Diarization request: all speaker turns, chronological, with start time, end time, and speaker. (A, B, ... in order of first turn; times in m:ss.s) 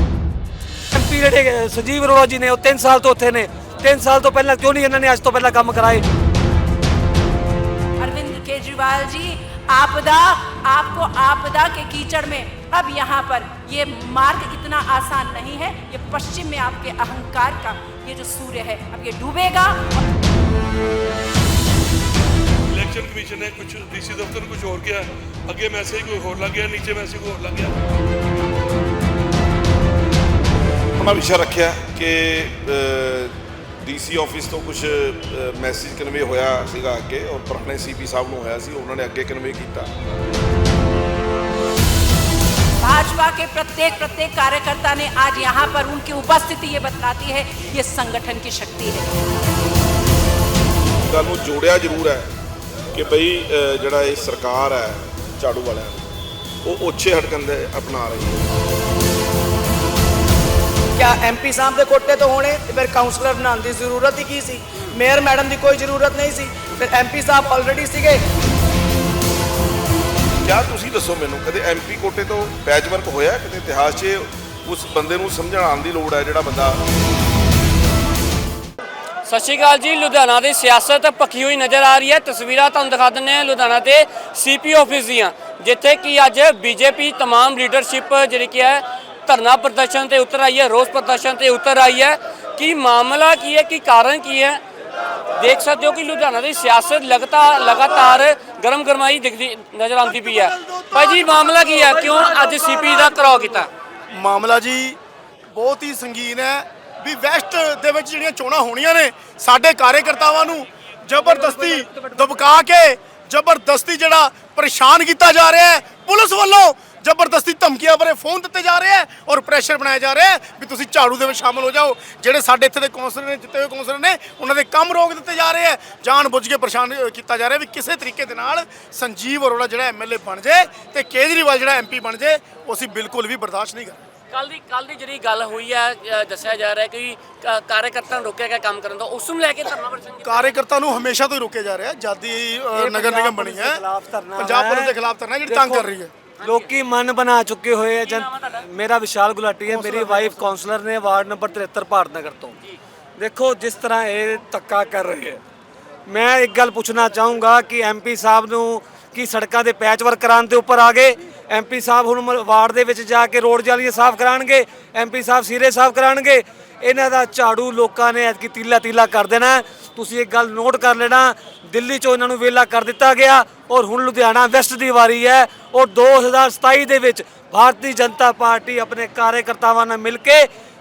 0:00.9-0:06.0 A
0:08.0-0:20.1 B
0:22.7-0:27.7 C
0:31.0-0:39.9 D
0:42.8-0:49.2 B
0:51.0-0:52.3 D
0:52.9-0:56.1 D
0:56.6-0:58.5 D
1:01.0-1:08.2 E
1:10.4-1:16.8 D
1:19.3-1:34.6 F
1:35.4-1:43.7 F
1:44.1-1:45.0 G
1:45.5-2:14.0 G
2:14.3-2:20.6 F
2:20.2-2:23.8 G
2:22.8-2:24.9 A
2:24.4-2:26.1 G
2:25.5-2:25.9 A
2:26.4-2:26.7 F
2:26.4-2:32.6 A
2:28.0-2:28.6 F
2:29.7-2:30.3 G
2:33.2-2:35.4 A
2:36.1-3:00.5 A